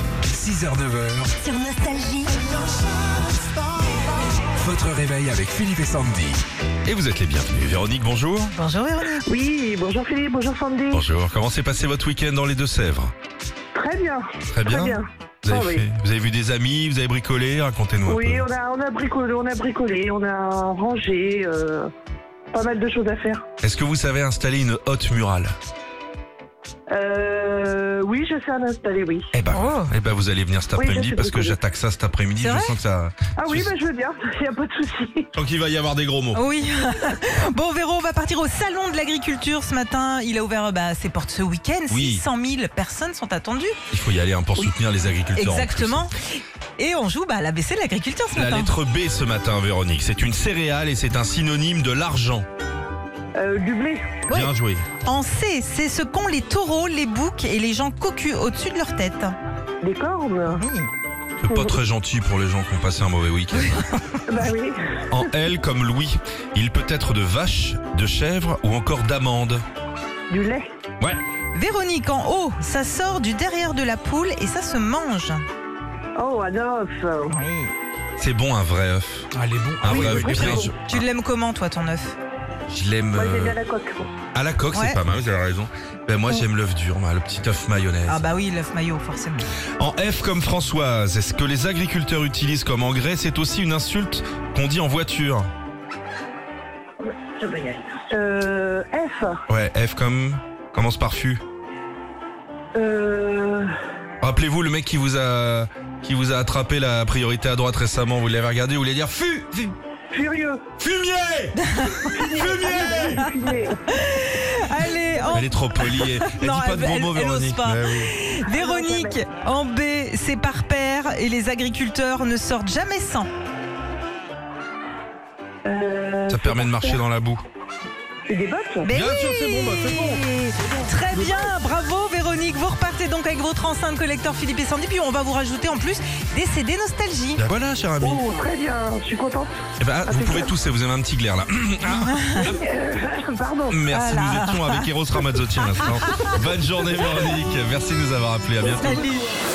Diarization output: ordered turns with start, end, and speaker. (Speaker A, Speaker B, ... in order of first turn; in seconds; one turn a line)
Speaker A: 0.3-1.4
Speaker B: 1.4-2.4
Speaker A: 4.5-6.4
Speaker C: 6.8-8.5
Speaker B: 8.5-9.2
Speaker D: 9.2-11.0
Speaker C: 10.9-13.1
Speaker D: 13.7-15.8
Speaker C: 14.5-18.4
Speaker D: 18.1-21.9
Speaker D: 22.5-23.4
Speaker C: 23.6-25.5
Speaker D: 26.9-29.3
Speaker C: 29.3-33.7
Speaker B: 29.5-29.9
Speaker D: 30.7-31.6
Speaker B: 32.4-32.7
Speaker D: 33.4-35.3
Speaker C: 35.3-36.4
Speaker B: 36.3-43.8
Speaker C: 41.9-42.2
Speaker C: 43.9-46.1
Speaker B: 45.4-48.7
Speaker C: 48.3-52.5
Speaker D: 53.3-54.2
Speaker B: 54.3-54.5
Speaker C: 54.3-54.9
Speaker B: 55.0-59.3
Speaker D: 59.8-60.6
Speaker B: 60.4-60.9
Speaker C: 61.4-63.8
Speaker D: 61.5-61.7
Speaker B: 63.5-64.2
Speaker D: 64.3-64.8
Speaker C: 65.1-69.6
Speaker D: 70.3-70.7
Speaker B: 71.5-75.4
Speaker D: 76.2-77.3
Speaker B: 77.3-77.7
Speaker C: 78.2-79.3
Speaker A: 79.3-80.7
Speaker C: 79.8-81.0
Speaker D: 79.9-80.7
Speaker B: 79.9-82.2
Speaker C: 82.7-83.6
Speaker D: 83.1-84.1
Speaker C: 84.3-88.2
Speaker B: 84.7-85.0
Speaker B: 88.1-89.5
Speaker C: 89.8-95.5
Speaker D: 97.4-99.4
Speaker C: 99.5-101.4
Speaker D: 102.7-103.7
Speaker C: 104.2-109.7
Speaker D: 110.1-110.6
Speaker C: 110.8-113.2
Speaker B: 111.6-123.3
Speaker D: 112.2-113.8
Speaker C: 115.3-118.1
Speaker D: 118.4-119.2
Speaker D: 125.6-127.0
Speaker C: 126.3-127.4
Speaker D: 128.3-128.9
Speaker B: 128.8-137.4
Speaker C: 128.9-130.2
Speaker C: 137.4-138.2
Speaker D: 138.0-140.5
Speaker C: 139.8-142.6
Speaker B: 141.9-142.5
Speaker D: 142.6-143.8
Speaker C: 143.7-149.1
Speaker B: 143.9-146.4
Speaker B: 148.7-149.3